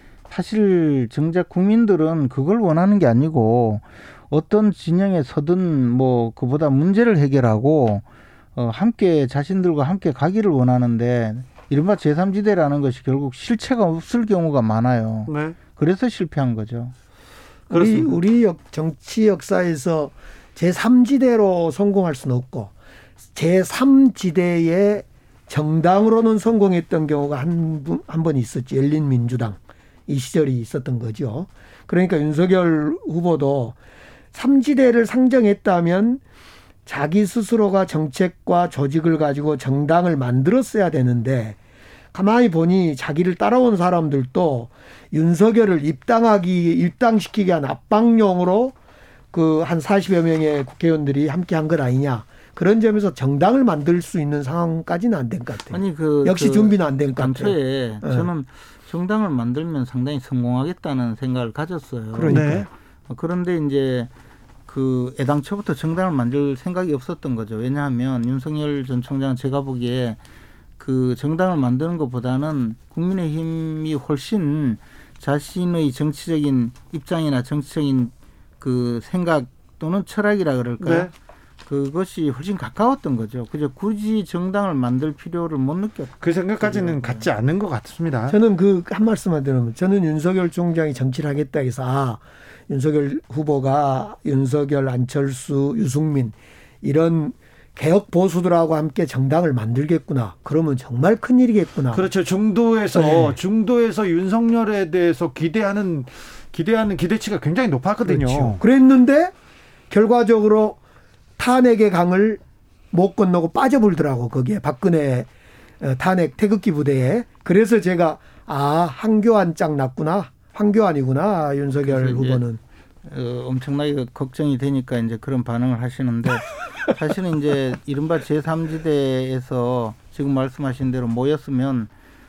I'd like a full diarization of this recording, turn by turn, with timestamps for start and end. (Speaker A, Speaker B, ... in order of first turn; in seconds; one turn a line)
Speaker A: 0.3-8.0
Speaker A: 8.6-16.9
Speaker B: 15.3-15.6
Speaker B: 17.7-18.1
Speaker C: 17.7-22.7
Speaker C: 23.4-33.8
Speaker C: 34.3-36.2
Speaker C: 36.9-41.6
Speaker C: 42.1-48.7
Speaker C: 49.3-58.3
Speaker A: 55.7-64.1
Speaker C: 62.1-62.7
Speaker B: 62.3-62.7
Speaker A: 64.7-70.2
Speaker A: 70.8-81.1
Speaker B: 80.8-81.1
Speaker A: 81.7-87.3
Speaker B: 86.2-88.4
Speaker C: 88.3-102.0
Speaker B: 101.9-108.6
Speaker C: 102.9-103.4
Speaker C: 108.1-109.3
Speaker C: 109.9-110.8
Speaker C: 111.4-112.4
Speaker C: 112.9-115.3
Speaker C: 115.8-122.6
Speaker A: 121.8-122.4
Speaker A: 123.1-131.9